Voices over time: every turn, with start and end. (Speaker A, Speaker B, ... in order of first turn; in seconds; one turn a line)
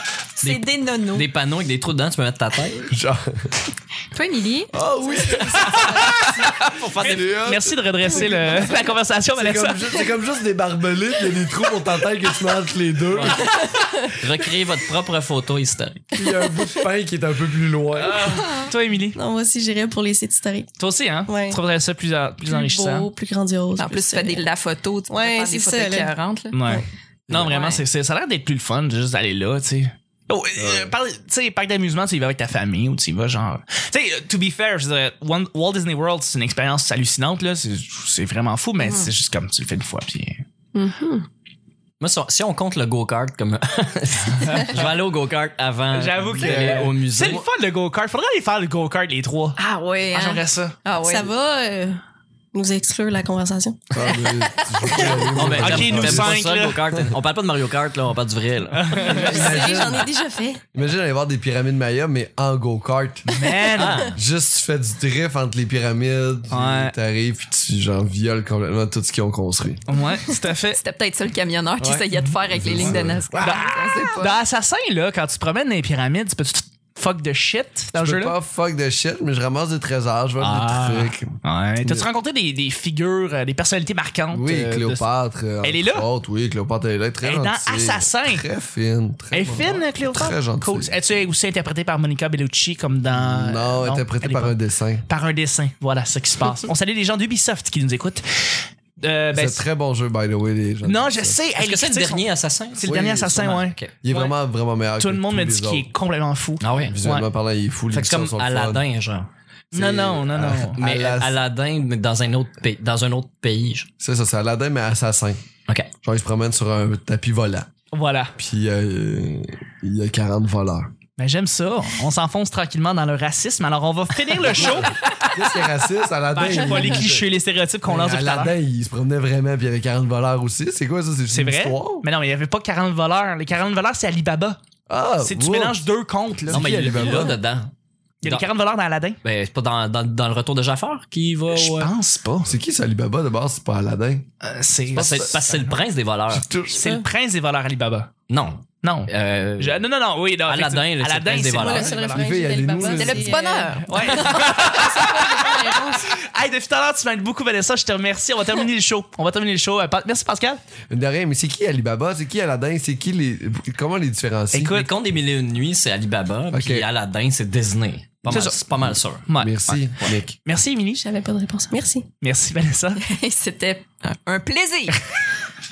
Speaker A: 0.4-1.3
Speaker B: 0.4-2.9
Speaker C: 2.9-3.6
Speaker A: 4.1-4.8
Speaker C: 4.7-6.5
Speaker D: 5.6-10.0
Speaker B: 6.6-7.4
Speaker C: 7.0-8.8
Speaker C: 9.3-13.7
Speaker B: 13.1-16.1
Speaker C: 16.1-18.3
Speaker B: 18.0-18.4
Speaker A: 18.3-18.6
Speaker D: 18.5-19.2
Speaker E: 19.1-20.7
Speaker D: 20.8-23.1
Speaker E: 21.3-21.6
Speaker E: 22.4-24.4
Speaker A: 23.8-26.6
Speaker E: 25.1-26.1
Speaker D: 26.5-40.4
Speaker C: 27.3-27.5
Speaker A: 27.3-27.8
Speaker C: 30.6-30.9
Speaker E: 40.8-41.3
Speaker B: 42.0-47.4
Speaker D: 45.9-50.8
Speaker C: 46.4-47.4
Speaker A: 49.6-51.3
Speaker E: 51.0-52.0
Speaker E: 52.5-53.9
Speaker C: 53.9-57.1
Speaker A: 54.6-54.9
Speaker B: 55.3-59.2
Speaker D: 55.5-56.9
Speaker D: 58.8-59.6
Speaker C: 59.0-60.1
Speaker E: 59.2-60.6
Speaker C: 60.7-63.3
Speaker D: 63.2-64.1
Speaker B: 63.8-64.2
Speaker C: 63.8-69.8
Speaker D: 66.5-66.9
Speaker D: 69.9-70.8
Speaker A: 70.7-74.4
Speaker C: 71.8-73.7
Speaker D: 72.7-78.3
Speaker C: 77.9-82.1
Speaker B: 80.4-81.1
Speaker D: 81.4-86.1
Speaker C: 84.3-91.0
Speaker D: 87.2-88.4
Speaker D: 89.3-98.2
Speaker C: 93.1-95.0
Speaker D: 99.0-99.7
Speaker C: 99.3-101.4
Speaker D: 100.8-104.3
Speaker B: 101.6-103.9
Speaker C: 102.8-105.9
Speaker D: 105.0-107.3
Speaker B: 106.6-107.0
Speaker C: 106.9-108.8
Speaker B: 107.9-109.3
Speaker D: 109.7-110.8
Speaker C: 109.7-111.4
Speaker B: 110.8-113.9
Speaker C: 114.0-115.4
Speaker C: 116.0-117.7
Speaker D: 117.9-118.3
Speaker C: 118.4-120.9
Speaker D: 121.2-125.5
Speaker C: 124.4-127.3
Speaker D: 126.3-128.6
Speaker C: 127.8-132.1
Speaker D: 131.3-134.6
Speaker C: 134.9-135.8
Speaker D: 135.2-137.0
Speaker C: 136.5-137.4
Speaker B: 136.5-137.7
Speaker D: 138.2-139.2
Speaker B: 139.2-141.9
Speaker D: 141.5-142.5
Speaker C: 142.4-144.2
Speaker D: 144.4-145.8
Speaker C: 144.9-145.4
Speaker B: 144.9-146.5
Speaker C: 146.3-146.9
Speaker D: 146.7-148.1
Speaker B: 148.3-149.9
Speaker D: 148.8-152.2
Speaker B: 150.4-152.1
Speaker E: 151.6-153.7
Speaker C: 152.2-153.4
Speaker A: 152.8-154.4
Speaker D: 153.8-160.6
Speaker E: 154.4-156.1
Speaker C: 160.9-164.8
Speaker D: 164.5-164.9
Speaker B: 164.7-169.3
Speaker C: 166.5-166.9
Speaker D: 168.3-171.0
Speaker C: 168.8-170.3
Speaker E: 171.0-172.1
Speaker D: 172.2-173.0
Speaker A: 173.0-175.0